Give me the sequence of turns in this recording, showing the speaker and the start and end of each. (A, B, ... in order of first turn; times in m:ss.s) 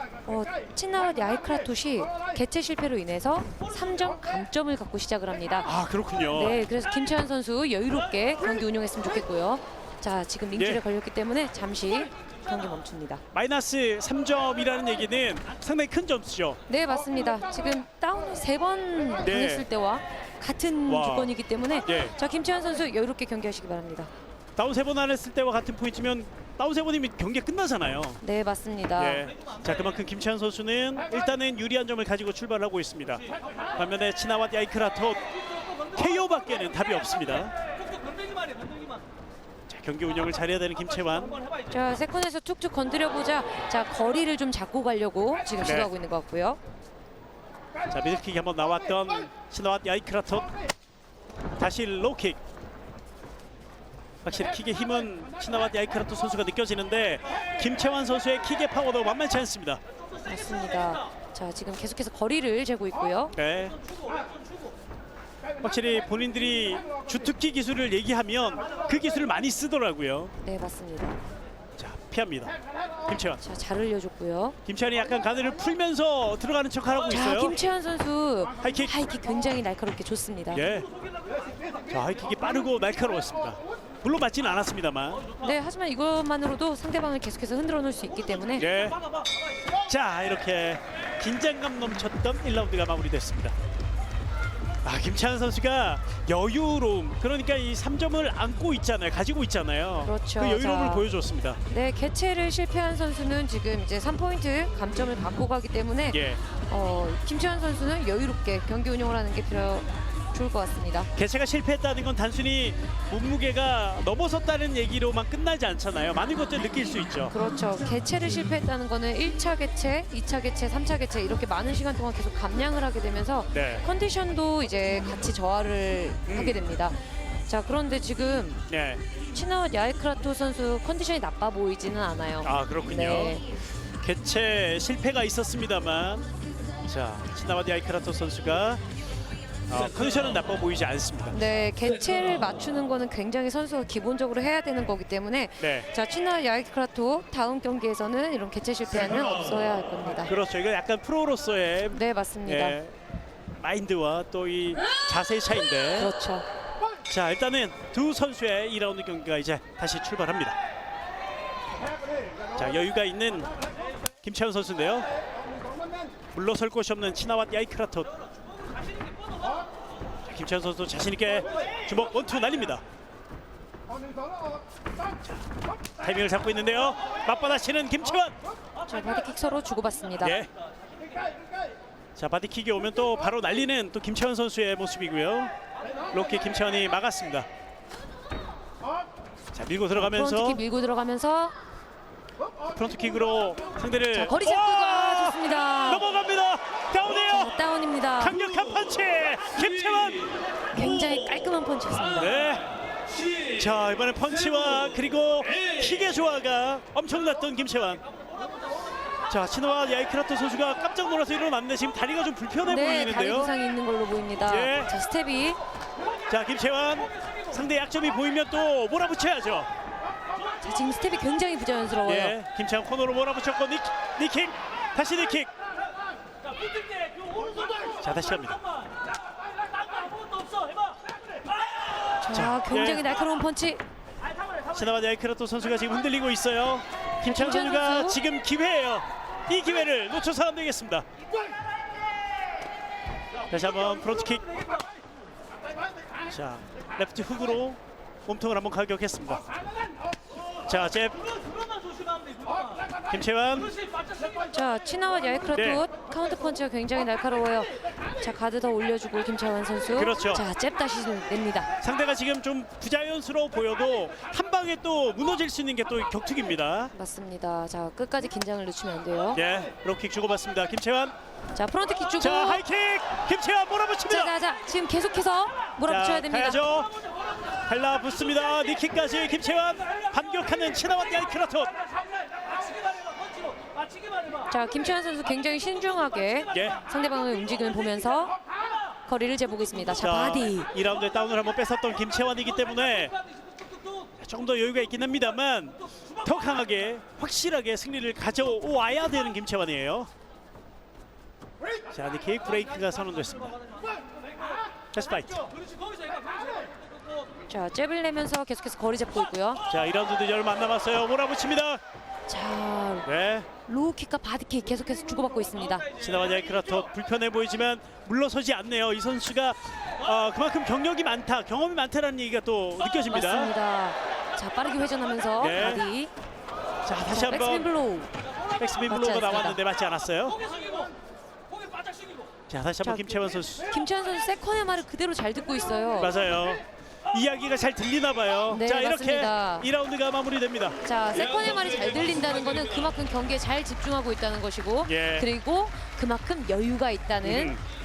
0:00.3-0:13.2 A
0:05.6-0:06.6 B
0:10.6-0:10.8 B
0:13.3-0:16.6 B
0:16.7-0:24.1 A
0:19.2-0:19.6 B
0:20.9-0:21.3 B
0:21.9-0:22.1 B
0:24.6-0:28.2 B
0:28.2-0:29.2 A
0:29.0-0:35.2 B
0:35.9-0:37.6 B
0:39.7-0:41.4 B
0:41.7-0:46.6 A
0:45.6-0:45.9 B
0:47.9-0:50.5 B
0:51.6-0:52.4 B
0:54.2-0:59.8 B
1:00.3-1:03.4 A
1:03.4-1:03.8 B
1:05.6-1:10.3 B
1:10.4-1:11.2 A
1:11.8-1:12.5 B
1:13.0-1:13.4 B
1:13.4-1:14.6 A
1:14.7-1:17.6 B
1:17.1-1:20.6 A
1:18.6-1:18.9 B
1:20.5-1:20.9 B
1:21.9-1:25.3 B
1:25.4-1:28.7 A
1:28.6-1:29.0 B
1:29.9-1:33.6 B
1:34.8-1:41.6 B
1:40.0-1:41.1 A
1:41.7-1:51.1 A
1:46.1-1:46.4 B
1:51.2-1:57.3 B
1:57.3-2:07.0 A
2:03.5-2:03.8 B
2:06.3-2:06.6 B
2:07.5-2:08.6 A
2:08.7-2:09.0 B
2:09.3-2:13.4 A
2:12.4-2:13.4 B
2:14.0-2:16.3 B
2:16.8-2:18.8 B
2:19.7-2:21.4 B
2:21.3-2:30.3 A
2:25.6-2:25.9 B
2:30.2-2:33.0 B
2:31.9-2:32.8 A
2:33.6-2:36.1 B
2:36.0-2:36.5 A
2:37.1-2:40.6 B
2:42.6-2:43.5 B
2:44.2-2:45.1 B
2:46.3-2:48.1 B
2:50.3-2:52.8 B
2:56.0-2:58.4 B
2:58.9-3:00.4 A
3:00.2-3:00.5 B
3:02.2-3:05.5 B
3:06.1-3:07.5 B
3:09.5-3:10.6 B
3:10.0-3:11.6 A
3:12.8-3:17.6 B
3:14.1-3:16.0 A
3:17.1-3:18.4 A
3:18.2-3:20.3 B
3:20.7-3:22.4 A
3:22.2-3:22.7 B
3:23.5-3:28.0 B
3:29.3-3:33.5 B
3:32.7-3:35.6 A
3:34.4-3:34.9 B
3:36.3-3:39.7 B
3:40.6-3:42.4 A
3:42.0-3:45.5 B
3:48.0-3:48.6 B
3:52.2-3:53.8 A
3:52.3-3:53.0 B
3:54.7-4:01.1 B
3:57.2-3:58.2 A
4:03.5-4:04.5 B
4:06.3-4:09.4 B
4:10.7-4:11.2 B
4:13.1-4:13.8 B
4:14.5-4:21.7 A
4:15.5-4:15.9 B
4:20.0-4:20.4 B
4:21.8-4:26.9 B
4:26.9-4:29.4 A
4:29.4-4:31.2 B
4:31.6-4:32.6 A
4:32.2-4:34.3 B
4:34.1-4:36.6 A
4:35.9-4:36.9 B
4:37.7-4:41.7 B
4:44.5-4:48.4 A
4:46.5-4:46.8 B
4:49.0-4:50.7 A
4:50.0-4:53.2 B
4:54.2-5:00.1 B
5:01.9-5:03.6 B
5:04.9-5:05.4 B
5:07.5-5:09.6 A
5:09.7-5:11.8 B
5:12.3-5:13.1 A
5:13.0-5:13.5 B
5:13.7-5:15.9 A
5:16.0-5:23.5 B
5:23.1-5:26.1 A
5:25.4-5:25.8 B
5:26.8-5:27.7 B
5:27.0-5:28.1 A
5:28.6-5:30.4 B
5:28.9-5:29.6 A
5:32.5-5:33.7 B
5:32.8-5:36.1 A
5:36.0-5:40.8 B
5:38.5-5:39.7 A
5:40.8-5:47.6 A
5:44.9-5:45.3 B
5:47.2-5:47.6 B